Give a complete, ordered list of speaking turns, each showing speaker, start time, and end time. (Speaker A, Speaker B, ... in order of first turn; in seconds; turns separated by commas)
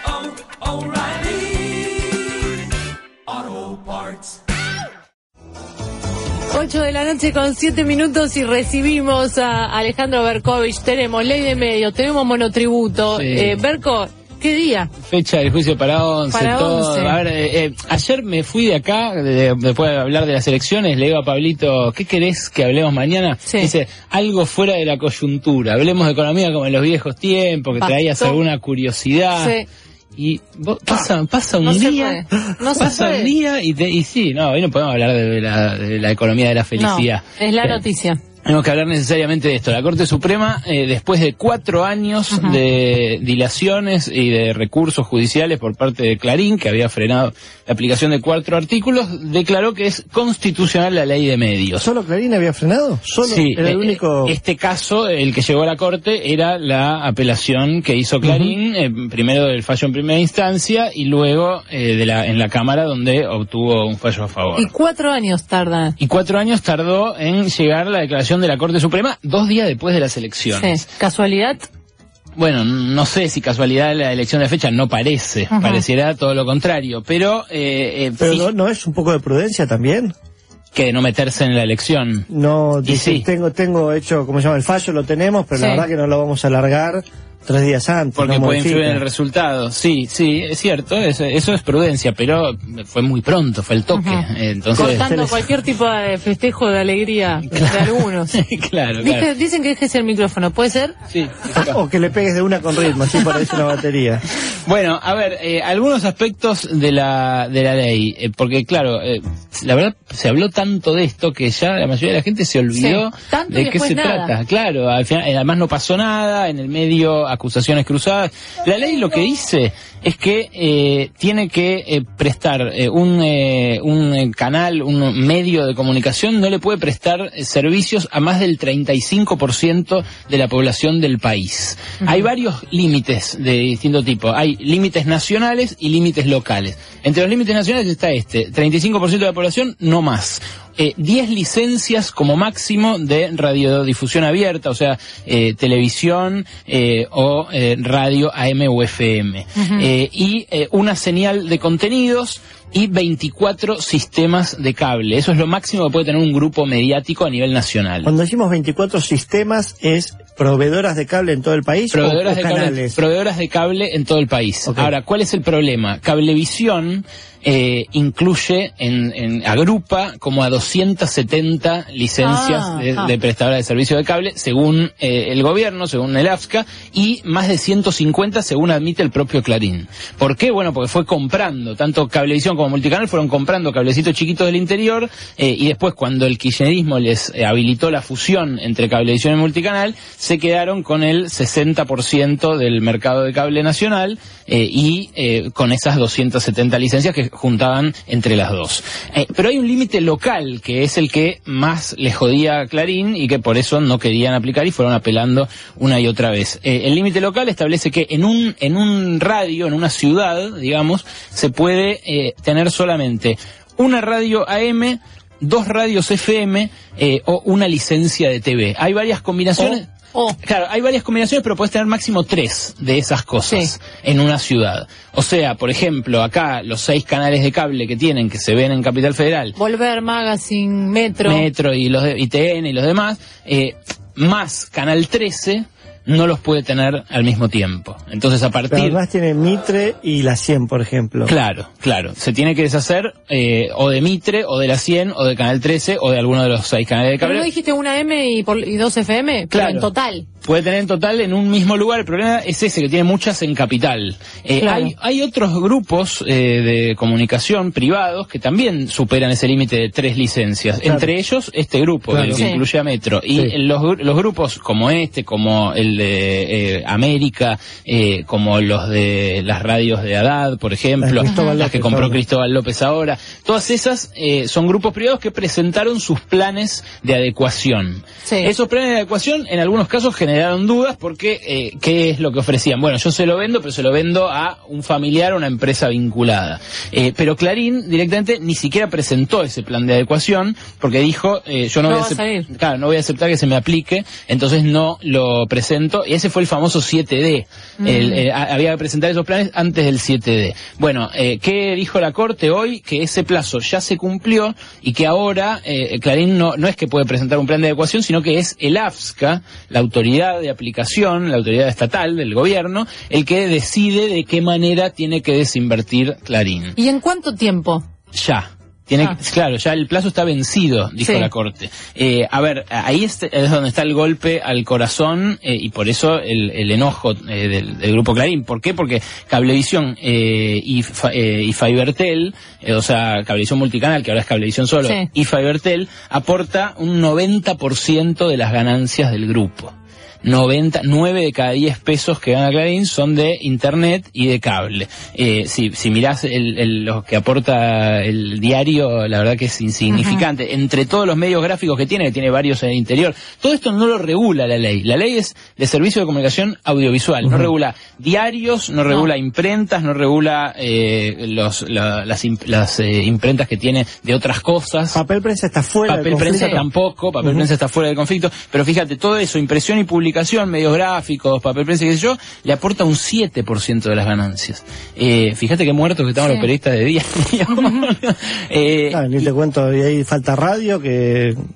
Speaker A: 6.5-14.9, Speaker B: 13.1-13.6, Speaker B: 15.1-29.6, Speaker A: 16.3-17.2, Speaker A: 23.4-23.7, Speaker A: 27.8-28.4, Speaker A: 29.4-29.7, Speaker B: 30.2-37.8, Speaker A: 31.6-33.3, Speaker A: 36.8-38.2, Speaker B: 38.4-51.9, Speaker A: 42.3-42.6, Speaker C: 51.8-54.4, Speaker B: 53.2-64.7, Speaker C: 58.2-58.5, Speaker A: 64.6-66.0, Speaker B: 66.0-70.8, Speaker A: 70.5-71.6, Speaker B: 72.4-78.5, Speaker A: 75.5-75.8, Speaker C: 78.2-80.1, Speaker B: 80.7-82.3, Speaker C: 82.3-89.0, Speaker B: 82.8-83.3, Speaker A: 85.5-85.9, Speaker B: 88.2-95.1, Speaker A: 93.9-94.2, Speaker A: 94.8-98.4, Speaker C: 94.8-95.4, Speaker B: 97.5-99.3, Speaker A: 99.0-100.9, Speaker B: 101.1-101.8, Speaker C: 101.5-104.2, Speaker B: 104.7-158.1, Speaker A: 112.7-114.3, Speaker A: 149.6-149.9, Speaker C: 158.0-163.0, Speaker B: 161.9-219.9, Speaker C: 164.7-164.9, Speaker A: 172.2-173.1, Speaker A: 219.6-220.4, Speaker B: 220.4-229.6, Speaker A: 229.6-231.5, Speaker B: 231.2-239.0, Speaker C: 238.7-241.3, Speaker B: 241.3-247.5, Speaker A: 247.2-250.3, Speaker B: 249.5-249.9, Speaker B: 250.4-316.8, Speaker A: 254.6-254.9, Speaker C: 262.1-262.5, Speaker A: 262.3-262.6, Speaker C: 271.0-272.2, Speaker A: 271.3-271.6, Speaker A: 278.2-278.5, Speaker A: 291.9-292.5, Speaker A: 297.8-298.2, Speaker A: 316.8-317.8, Speaker B: 318.1-365.0, Speaker A: 321.0-321.3, Speaker A: 349.9-350.2, Speaker C: 357.2-357.5, Speaker C: 364.9-366.6, Speaker B: 365.9-379.3, Speaker A: 366.2-366.6, Speaker A: 376.2-376.5, Speaker C: 378.9-381.4